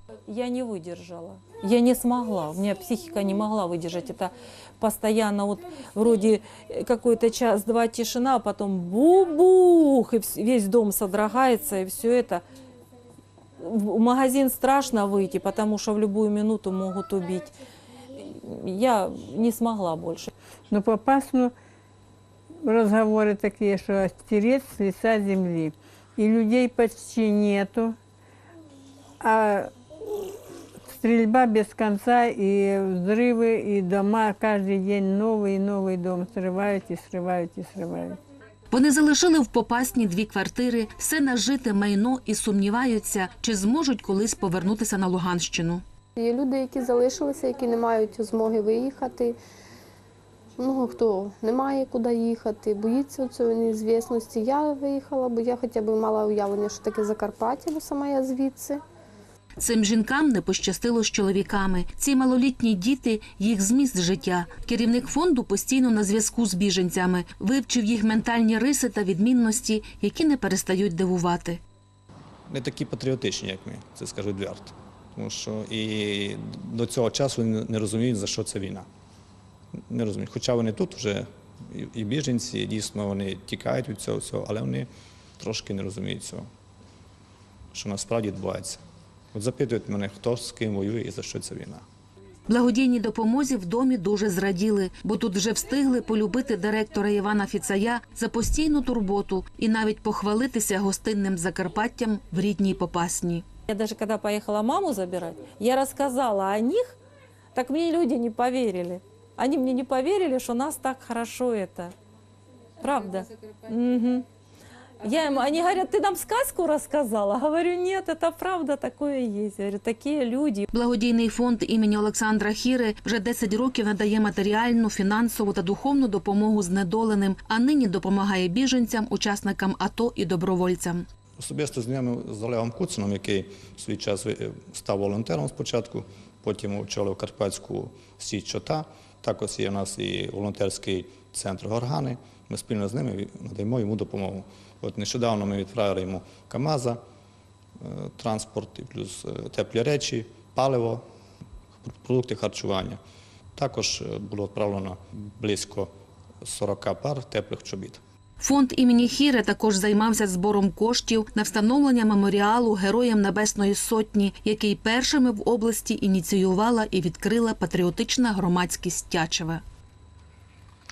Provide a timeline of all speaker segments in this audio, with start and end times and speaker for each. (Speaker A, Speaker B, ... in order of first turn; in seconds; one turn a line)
Speaker A: 0.3-12.4
Speaker A: 13.6-17.5
Speaker A: 18.2-20.3
Speaker B: 20.7-21.5
Speaker B: 22.6-27.9
Speaker B: 29.2-29.7
Speaker B: 30.9-38.2
Speaker C: 38.7-45.8
Speaker D: 46.2-49.4
Speaker D: 50.6-58.8
Speaker C: 59.6-71.6
Speaker E: 72.5-78.8
Speaker E: 79.9-84.9
Speaker E: 85.4-86.5
Speaker E: 87.7-88.8
Speaker E: 89.3-91.8
Speaker C: 92.5-103.5
Speaker A: 103.7-106.9
Speaker A: 107.5-111.9
Speaker A: 112.8-114.2
Speaker A: 115.0-120.7
Speaker C: 120.7-131.1
Speaker E: 131.4-147.0
Speaker E: 147.8-151.0
Speaker E: 151.8-153.0
Speaker E: 153.6-155.9
Speaker E: 156.4-158.0
Speaker C: 158.4-169.6